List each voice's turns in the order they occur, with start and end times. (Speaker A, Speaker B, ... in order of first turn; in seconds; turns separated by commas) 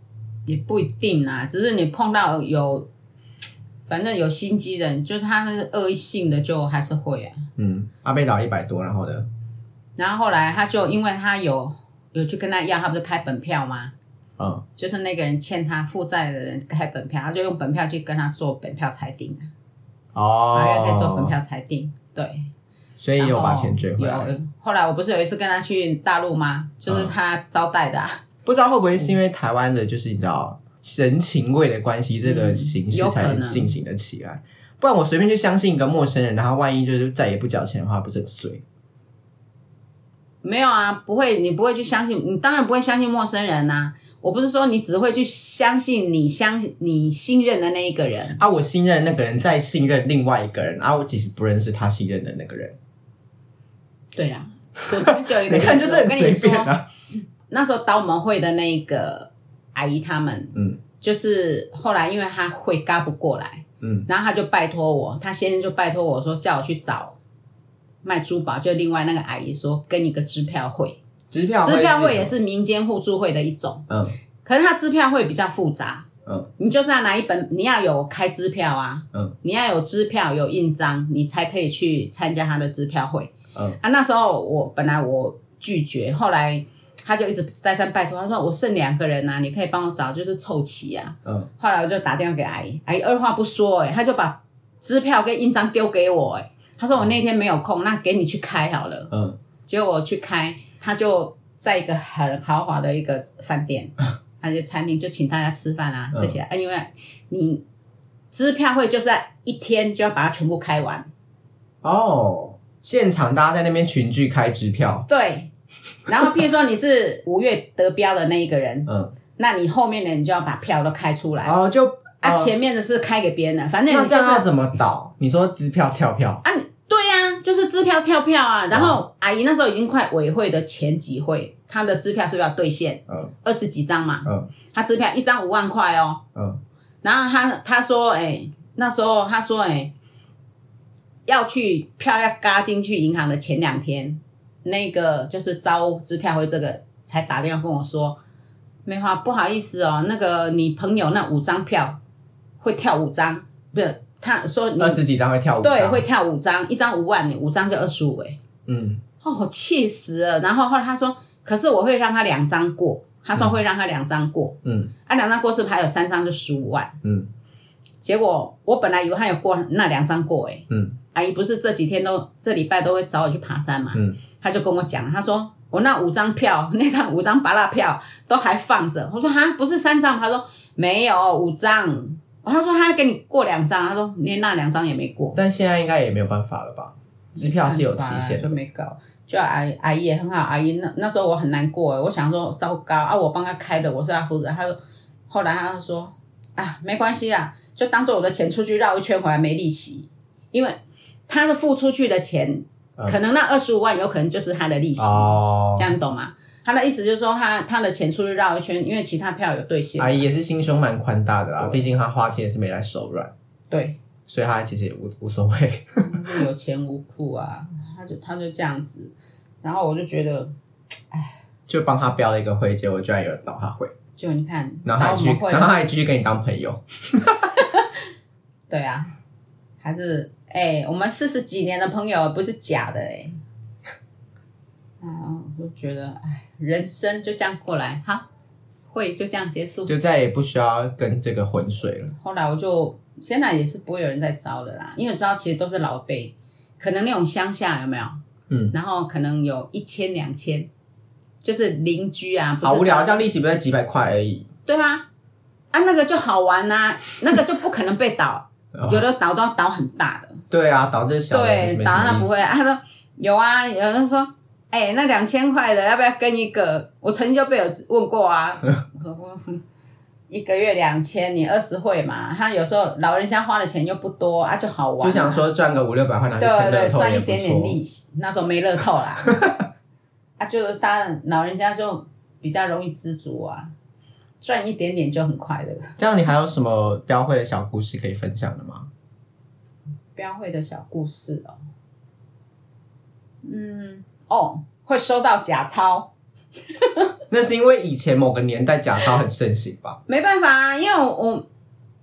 Speaker A: 0.5-2.9, Speaker A: 3.9-7.4, Speaker B: 7.6-9.3, Speaker A: 10.0-13.9, Speaker B: 14.4-14.6, Speaker A: 14.8-19.5, Speaker B: 20.1-21.4, Speaker A: 20.5-22.5, Speaker B: 23.0-24.3, Speaker A: 23.2-28.2, Speaker B: 26.9-27.1, Speaker B: 28.4-38.6, Speaker A: 32.2-33.8, Speaker A: 40.4-48.4, Speaker B: 48.4-52.8, Speaker A: 54.2-56.7, Speaker B: 55.0-56.9, Speaker A: 57.5-67.2, Speaker B: 60.5-60.8, Speaker B: 63.8-64.1, Speaker A: 68.0-71.0, Speaker B: 71.3-72.3, Speaker A: 71.6-73.9, Speaker B: 73.9-74.2, Speaker A: 74.4-99.1, Speaker B: 99.1-99.4, Speaker A: 99.7-107.6, Speaker A: 108.3-111.1, Speaker B: 111.8-115.1, Speaker A: 115.1-115.5, Speaker A: 116.1-121.6, Speaker B: 118.9-119.1, Speaker B: 121.4-122.5, Speaker A: 122.2-124.5, Speaker B: 123.9-126.4, Speaker A: 126.4-136.2, Speaker B: 128.7-129.0, Speaker B: 134.2-134.5, Speaker B: 136.3-136.6, Speaker A: 137.0-139.9, Speaker A: 141.3-148.2, Speaker A: 148.9-152.0, Speaker A: 152.6-155.0, Speaker B: 154.8-156.0, Speaker A: 155.6-158.4, Speaker B: 158.7-159.0, Speaker A: 159.2-167.0, Speaker B: 164.6-164.9, Speaker B: 167.0-167.3, Speaker A: 168.0-185.4, Speaker B: 170.7-171.0, Speaker B: 185.3-188.6, Speaker A: 187.3-194.8, Speaker A: 195.3-210.3, Speaker B: 205.0-205.9, Speaker B: 210.0-213.3, Speaker A: 211.6-211.9, Speaker A: 213.7-214.0, Speaker B: 214.3-216.4, Speaker A: 216.0-220.5, Speaker B: 221.7-223.9, Speaker A: 224.2-225.9, Speaker B: 224.9-227.5, Speaker A: 227.5-228.0, Speaker A: 228.7-229.1, Speaker A: 229.8-233.3, Speaker A: 235.0-238.2, Speaker A: 238.9-239.9, Speaker B: 239.9-242.1, Speaker A: 242.2-248.2, Speaker B: 248.5-248.8, Speaker A: 248.7-250.7, Speaker A: 251.4-253.2, Speaker B: 252.6-254.5, Speaker A: 254.7-255.1, Speaker A: 255.7-260.4, Speaker B: 258.7-259.0, Speaker B: 260.5-262.4, Speaker A: 261.3-269.6, Speaker A: 270.3-275.4, Speaker B: 275.0-277.8, Speaker A: 276.4-279.4, Speaker B: 279.3-279.6, Speaker A: 280.4-283.7, Speaker A: 284.4-285.9, Speaker B: 286.0-288.9, Speaker A: 290.1-291.6, Speaker A: 293.4-296.1, Speaker A: 296.7-297.1, Speaker B: 297.3-300.0, Speaker A: 300.1-301.4